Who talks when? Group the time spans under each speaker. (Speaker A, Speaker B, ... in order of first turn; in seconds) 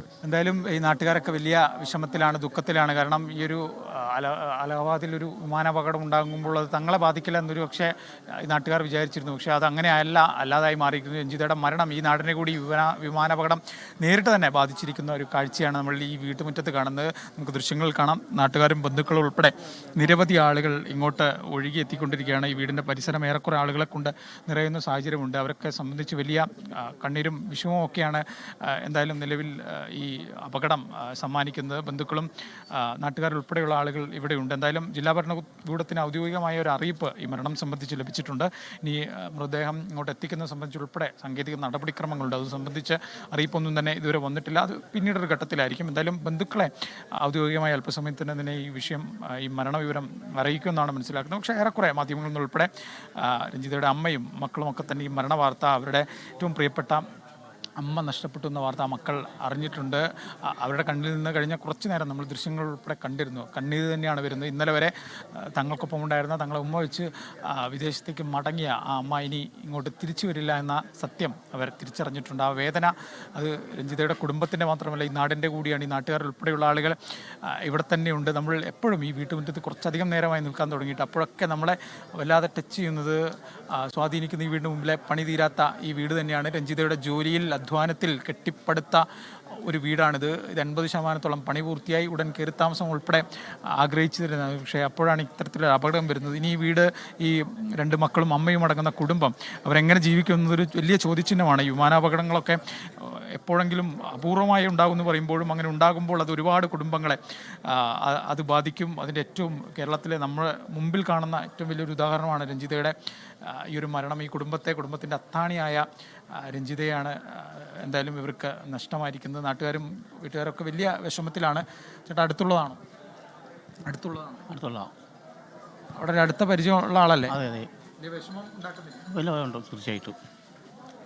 Speaker A: 0.2-57.0, 57.8-89.1, 89.6-93.2, 93.8-122.8, 123.8-124.5, 126.0-127.4, 128.0-129.1
Speaker B: 124.5-124.9, 127.3-127.7, 129.1-130.2